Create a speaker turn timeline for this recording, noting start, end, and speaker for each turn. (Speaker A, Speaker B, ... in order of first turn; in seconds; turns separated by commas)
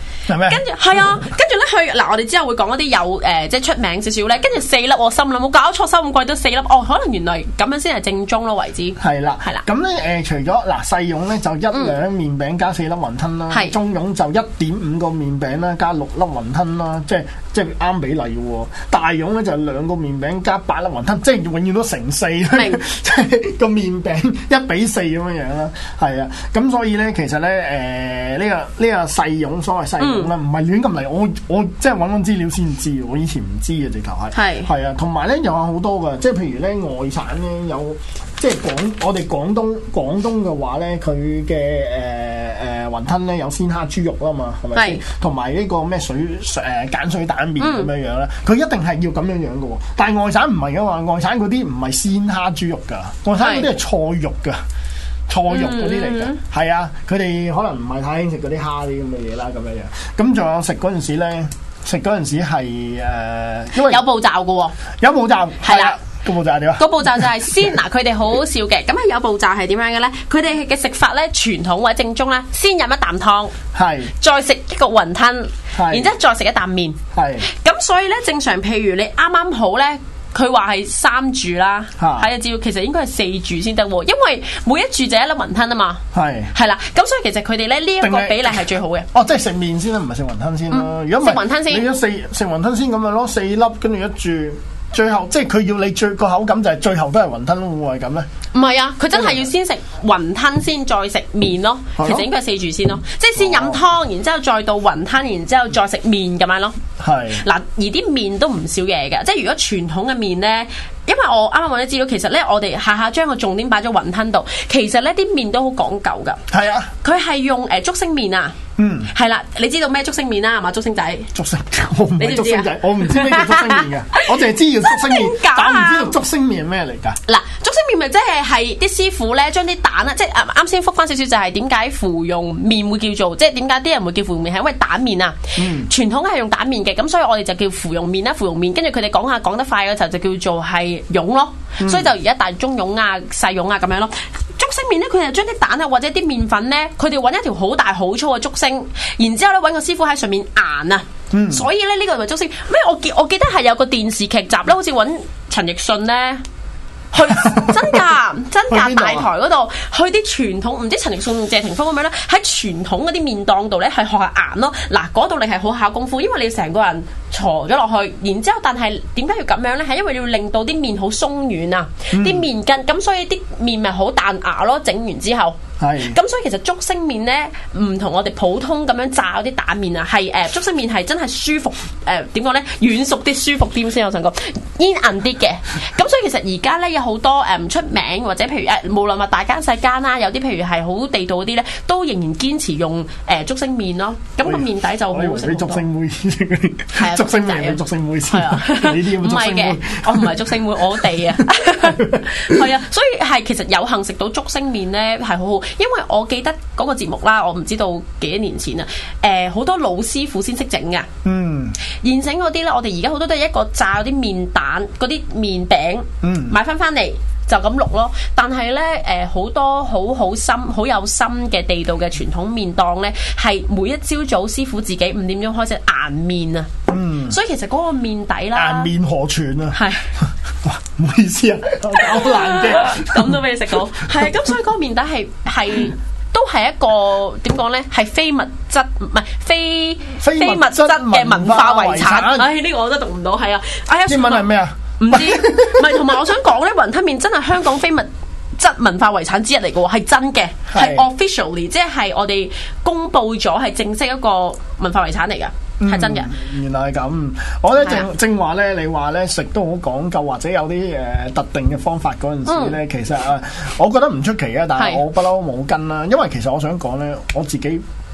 Speaker A: 0.3-1.3, Speaker B: 0.5-9.6, Speaker A: 9.0-54.6, Speaker B: 22.6-22.8, Speaker B: 30.0-30.3, Speaker B: 34.4-34.7, Speaker B: 44.7-45.0, Speaker B: 47.6-47.9, Speaker B: 53.4-53.7, Speaker A: 55.3-64.0, Speaker B: 55.5-56.4, Speaker B: 63.8-64.8, Speaker A: 65.0-67.8, Speaker B: 65.6-66.0, Speaker B: 66.8-73.5, Speaker A: 73.7-74.1, Speaker B: 74.2-86.0, Speaker A: 75.7-76.1, Speaker A: 77.1-77.5, Speaker A: 82.0-82.3, Speaker A: 86.1-86.5, Speaker B: 86.5-89.1, Speaker A: 88.0-98.3, Speaker B: 90.7-91.9, Speaker B: 98.5-106.8, Speaker A: 99.1-99.5, Speaker A: 102.0-102.3, Speaker A: 103.4-103.8, Speaker A: 107.0-107.4, Speaker B: 107.3-116.4, Speaker A: 116.5-116.9, Speaker B: 117.0-118.5, Speaker A: 118.8-119.1, Speaker B: 119.1-121.3, Speaker A: 121.3-127.2, Speaker B: 122.2-124.3, Speaker B: 124.9-126.2, Speaker B: 127.3-156.4, Speaker A: 135.6-135.9, Speaker A: 141.8-142.1, Speaker A: 151.3-151.7, Speaker B: 157.1-195.8, Speaker A: 157.3-158.1, Speaker A: 158.7-159.3, Speaker A: 172.1-172.4, Speaker A: 175.8-176.2, Speaker A: 194.4-200.6, Speaker B: 196.9-211.1, Speaker A: 201.4-202.7, Speaker A: 211.2-211.8, Speaker B: 212.0-226.8, Speaker A: 216.2-216.6, Speaker A: 226.9-227.4, Speaker B: 227.3-228.9, Speaker A: 228.5-234.4, Speaker B: 229.7-230.1, Speaker B: 232.0-256.3, Speaker A: 240.2-242.5, Speaker A: 244.1-246.3, Speaker A: 250.7-251.1, Speaker A: 255.8-267.8, Speaker B: 257.8-258.1, Speaker B: 262.5-262.8, Speaker B: 264.8-265.0